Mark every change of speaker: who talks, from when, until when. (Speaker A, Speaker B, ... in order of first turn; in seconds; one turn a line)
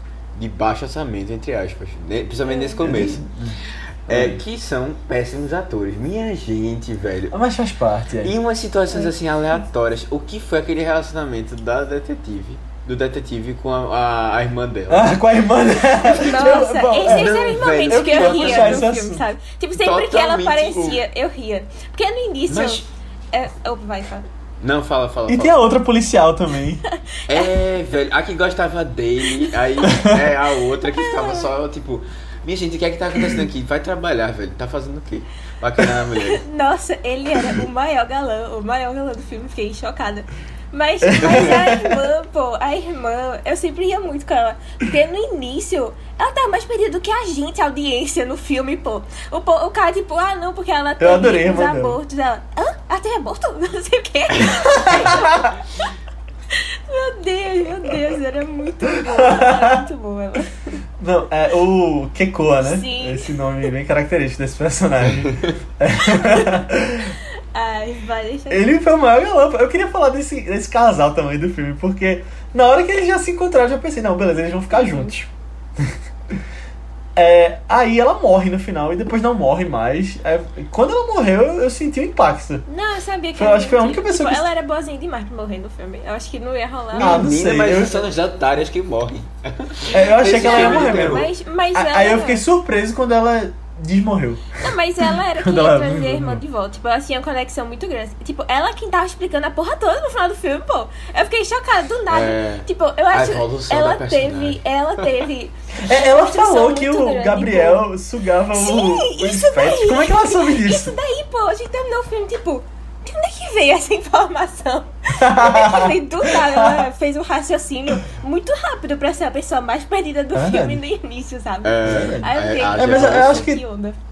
Speaker A: 0.3-3.2
Speaker B: 2.5-3.1
Speaker C: 2.8-4.4
Speaker A: 4.1-7.3
Speaker C: 7.3-8.3
Speaker A: 8.2-15.1
Speaker C: 14.9-19.2
Speaker B: 16.1-24.3
Speaker A: 17.0-18.8
Speaker A: 19.8-21.0
Speaker A: 22.5-22.9
Speaker A: 24.6-25.7
Speaker C: 25.3-26.8
Speaker B: 26.9-27.5
Speaker A: 27.3-36.4
Speaker C: 29.8-30.2
Speaker B: 30.9-31.5
Speaker B: 36.1-55.9
Speaker C: 41.0-42.0
Speaker A: 41.2-41.5
Speaker C: 51.0-52.0
Speaker C: 54.7-55.5
Speaker B: 56.5-60.8
Speaker C: 59.0-59.8
Speaker C: 61.0-67.2
Speaker B: 62.6-63.4
Speaker A: 65.1-65.6
Speaker B: 66.0-66.6
Speaker B: 67.5-68.7
Speaker C: 68.5-76.0
Speaker B: 74.7-75.1
Speaker C: 77.2-82.6
Speaker B: 82.7-87.3
Speaker C: 83.3-84.5
Speaker C: 87.0-88.0
Speaker A: 87.0-91.3
Speaker C: 89.9-96.4
Speaker B: 90.0-92.4
Speaker B: 94.6-107.8
Speaker A: 102.1-105.1
Speaker C: 105.9-111.0
Speaker B: 108.5-124.0
Speaker C: 115.2-116.9
Speaker C: 120.3-120.8
Speaker A: 121.6-123.5
Speaker C: 121.8-123.6